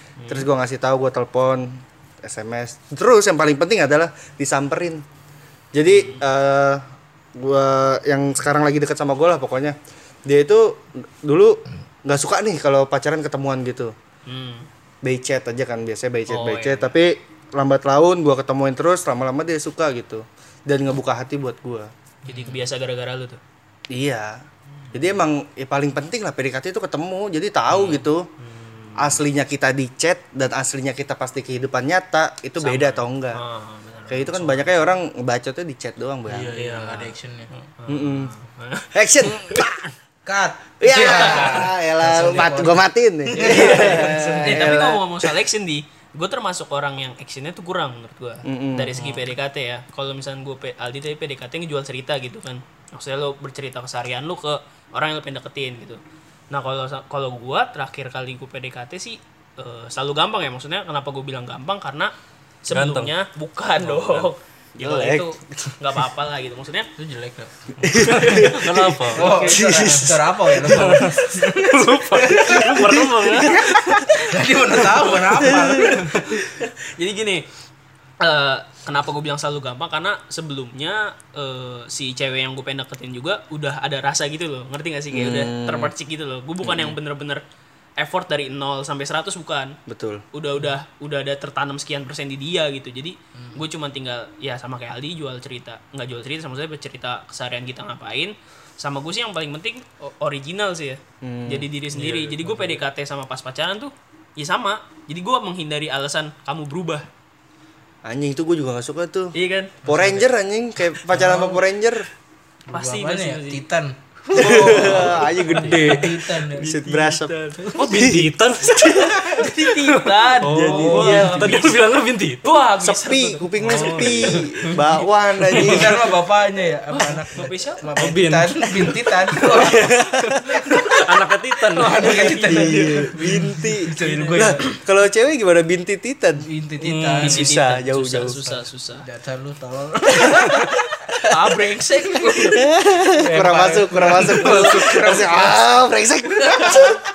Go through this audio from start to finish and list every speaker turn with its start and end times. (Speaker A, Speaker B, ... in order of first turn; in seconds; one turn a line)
Speaker A: 0.2-0.5
Speaker B: 0.3-5.0
Speaker B: 5.7-6.8
Speaker A: 5.9-6.2
Speaker B: 7.4-13.9
Speaker A: 14.3-14.7
Speaker B: 15.0-21.9
Speaker A: 16.3-16.9
Speaker C: 22.2-22.7
Speaker A: 22.3-23.4
Speaker B: 23.9-24.4
Speaker B: 24.9-28.3
Speaker A: 27.7-29.2
Speaker B: 29.0-33.4
Speaker A: 32.6-34.8
Speaker B: 34.1-36.5
Speaker C: 36.3-37.5
Speaker A: 36.6-37.1
Speaker A: 37.8-39.6
Speaker B: 37.9-38.3
Speaker B: 38.9-39.9
Speaker C: 40.3-44.9
Speaker B: 40.8-45.4
Speaker A: 41.0-41.7
Speaker A: 43.3-56.0
Speaker B: 48.5-49.0
Speaker D: 49.0-49.2
Speaker A: 56.5-62.1
Speaker A: 62.6-66.9
Speaker D: 62.7-63.1
Speaker D: 63.8-64.3
Speaker B: 64.8-65.8
Speaker C: 67.0-68.6
Speaker B: 67.8-71.0
Speaker D: 67.9-69.3
Speaker C: 69.1-73.6
Speaker A: 69.2-69.6
Speaker D: 70.6-73.7
Speaker B: 72.4-74.2
Speaker C: 74.1-76.4
Speaker B: 75.5-76.0
Speaker A: 76.6-77.5
Speaker A: 78.2-87.4
Speaker B: 85.1-85.9
Speaker B: 86.7-86.9
Speaker A: 88.0-89.8
Speaker B: 89.9-90.2
Speaker A: 90.3-107.1
Speaker C: 93.4-93.6
Speaker B: 101.2-101.7
Speaker D: 101.9-102.8
Speaker B: 108.0-109.3
Speaker A: 109.3-109.8
Speaker C: 109.8-110.3
Speaker B: 109.9-112.1
Speaker C: 111.2-111.6
Speaker A: 112.7-113.6
Speaker C: 112.7-116.8
Speaker A: 114.3-116.0
Speaker B: 114.3-119.6
Speaker D: 114.9-116.0
Speaker A: 116.5-117.8
Speaker D: 117.8-119.3
Speaker A: 119.2-121.9
Speaker D: 119.9-122.5
Speaker B: 120.4-121.7
Speaker C: 121.0-121.3
Speaker A: 122.4-124.8
Speaker B: 122.8-126.0
Speaker D: 123.6-124.7
Speaker D: 125.5-126.0
Speaker C: 125.5-129.8
Speaker A: 126.9-127.8
Speaker D: 128.0-130.1
Speaker B: 129.7-130.4
Speaker C: 130.5-131.0
Speaker D: 130.7-132.4
Speaker C: 131.7-134.7
Speaker A: 131.8-133.1
Speaker B: 132.3-136.5
Speaker A: 133.9-134.8
Speaker C: 136.4-137.4
Speaker D: 136.8-137.5
Speaker A: 137.2-139.1
Speaker B: 137.2-138.5
Speaker C: 139.0-142.3
Speaker A: 140.5-142.7
Speaker B: 142.4-147.0
Speaker C: 143.1-145.6
Speaker A: 146.4-146.9
Speaker C: 146.4-147.0